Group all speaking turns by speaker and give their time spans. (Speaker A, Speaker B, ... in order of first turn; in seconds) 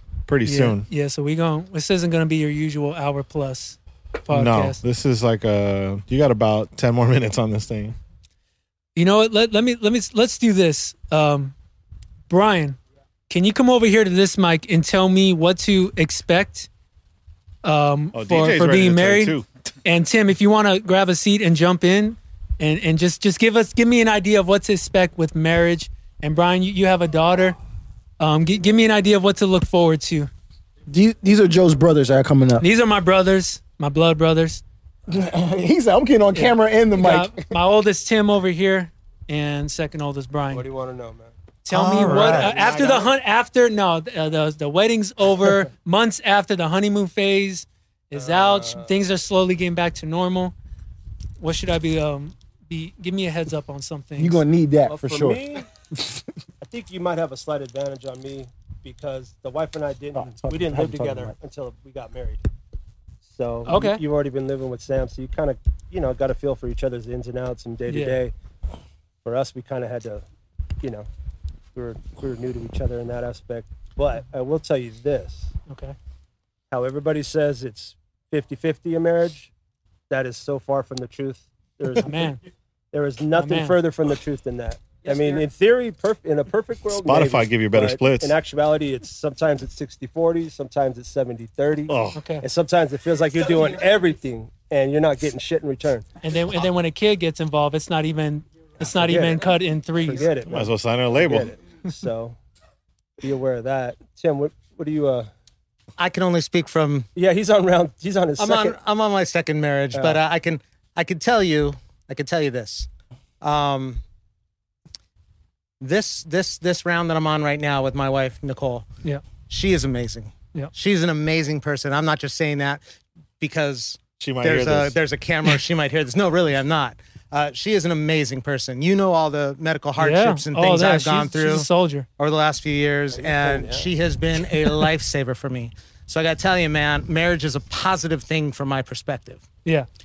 Speaker A: 0.3-0.9, 4.3-8.0, 18.1-19.4, 41.7-42.4, 86.9-88.3, 91.9-92.2, 100.5-101.5, 124.2-125.0
Speaker B: 0.5-4.8, 8.9-11.5, 12.3-12.8, 13.3-16.7, 17.6-27.6, 28.2-30.3, 32.6-34.6, 36.3-40.6, 41.6-50.5, 51.4-54.4, 63.7-64.0, 67.9-68.2, 75.7-76.0, 82.0-82.4, 83.3-83.8, 92.2-92.4, 96.2-100.3, 130.0-132.1
Speaker C: 30.9-32.6, 35.1-37.5, 41.7-42.3, 54.2-55.4, 60.2-61.3
Speaker D: 40.5-41.3, 42.1-43.1, 48.1-48.9, 54.9-55.7, 56.6-62.4, 63.2-68.3, 69.2-70.2, 70.8-71.1, 71.7-75.5, 76.7-79.5, 80.1-82.3, 82.9-96.1, 98.9-102.4, 103.2-105.3, 107.2-108.8, 109.9-110.2, 133.1-133.9
Speaker E: 106.0-107.1, 108.4-112.9, 113.4-114.0, 115.8-118.8, 119.5-122.8, 123.4-131.7, 132.2-139.4